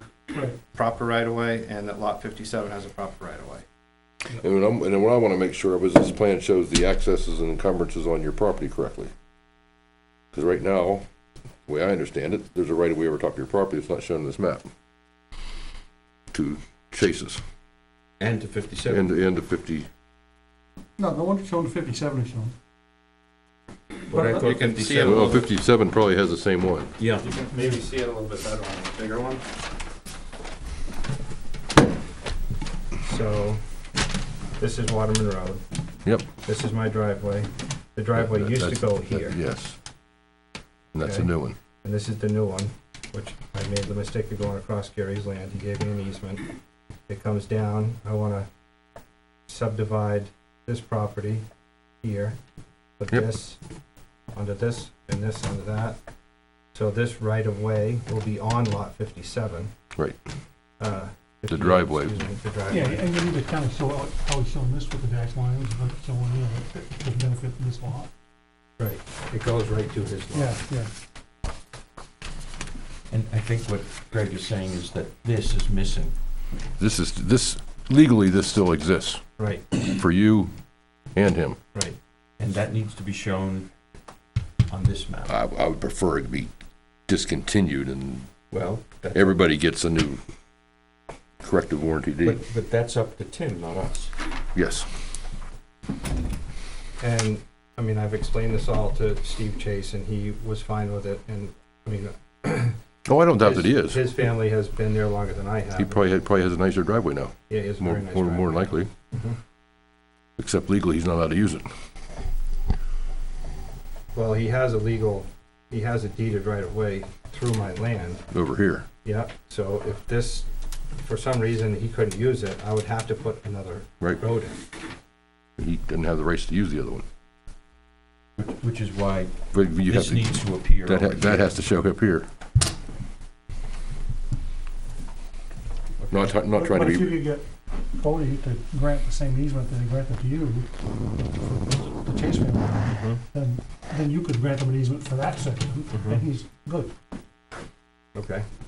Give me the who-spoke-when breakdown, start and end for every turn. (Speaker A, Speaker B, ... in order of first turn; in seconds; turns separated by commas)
Speaker A: 0.5-3.6, Speaker B: 4.4-9.1, Speaker B: 10.3-11.1, Speaker B: 11.7-14.7, Speaker B: 16.3-17.4, Speaker C: 18.2-19.1, Speaker B: 18.9-19.9, Speaker D: 21.0-22.5, Speaker C: 24.1-25.5, Speaker D: 24.1-24.4, Speaker A: 24.2-25.5, Speaker B: 24.9-26.9, Speaker C: 27.0-27.3, Speaker A: 27.2-29.4, Speaker A: 33.0-33.6, Speaker A: 34.6-35.6, Speaker A: 36.4-39.4, Speaker B: 38.2-39.8, Speaker B: 40.9-41.6, Speaker A: 41.0-46.5, Speaker A: 47.1-48.5, Speaker A: 49.5-51.4, Speaker A: 52.0-52.4, Speaker A: 53.0-53.6, Speaker A: 54.3-56.0, Speaker A: 56.7-59.7, Speaker A: 60.8-63.1, Speaker B: 61.5-62.2, Speaker D: 62.7-68.1, Speaker A: 68.8-70.6, Speaker D: 70.3-70.9, Speaker C: 73.1-76.2, Speaker B: 76.8-80.5, Speaker A: 79.4-79.7, Speaker B: 81.1-81.6, Speaker C: 82.4-83.7, Speaker C: 84.7-85.3, Speaker B: 85.3-86.5, Speaker B: 87.1-88.3, Speaker C: 88.5-89.4, Speaker B: 89.1-90.2, Speaker B: 91.4-92.4, Speaker C: 92.2-94.1, Speaker B: 94.5-94.9, Speaker A: 97.0-102.8, Speaker B: 103.1-104.0, Speaker A: 103.4-106.1, Speaker B: 105.8-108.9, Speaker A: 107.5-109.4, Speaker B: 110.4-111.7, Speaker A: 114.1-118.2, Speaker B: 118.3-118.9, Speaker A: 119.0-120.5, Speaker A: 121.0-124.6, Speaker B: 125.6-127.0, Speaker C: 128.4-131.5, Speaker B: 129.5-132.3, Speaker C: 136.0-136.3, Speaker B: 136.1-137.2, Speaker D: 136.5-146.9, Speaker A: 148.2-148.4